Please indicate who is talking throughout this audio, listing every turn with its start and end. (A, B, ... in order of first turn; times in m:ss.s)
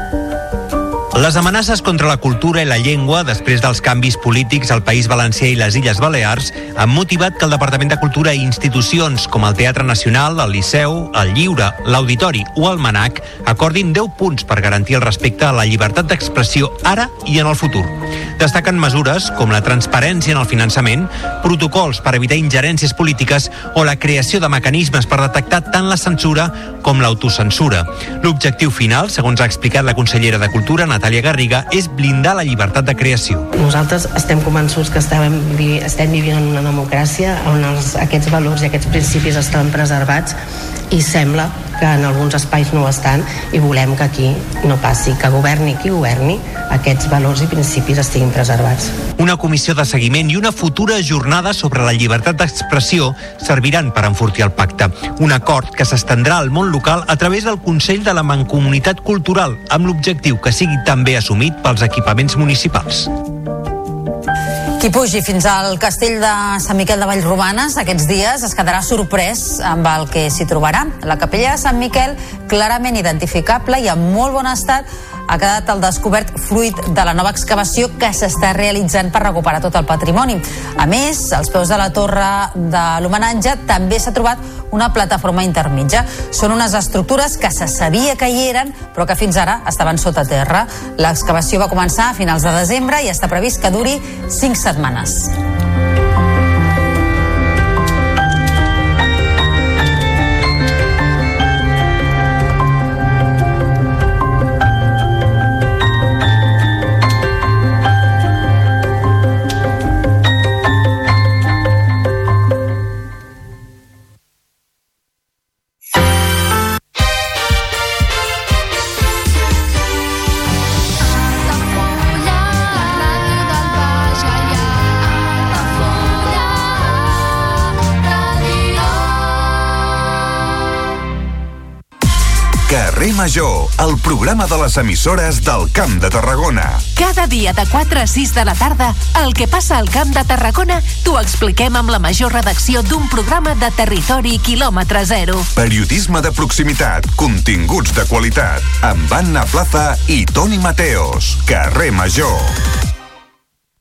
0:01.1-0:33.5 A
0:33.5-0:40.3 B
0:40.9-0:48.9 B
0:49.2-1:03.1 A
1:04.8-1:35.3 C
2:12.7-2:16.8 D
2:17.0-2:25.5 E
2:25.5-2:32.5 D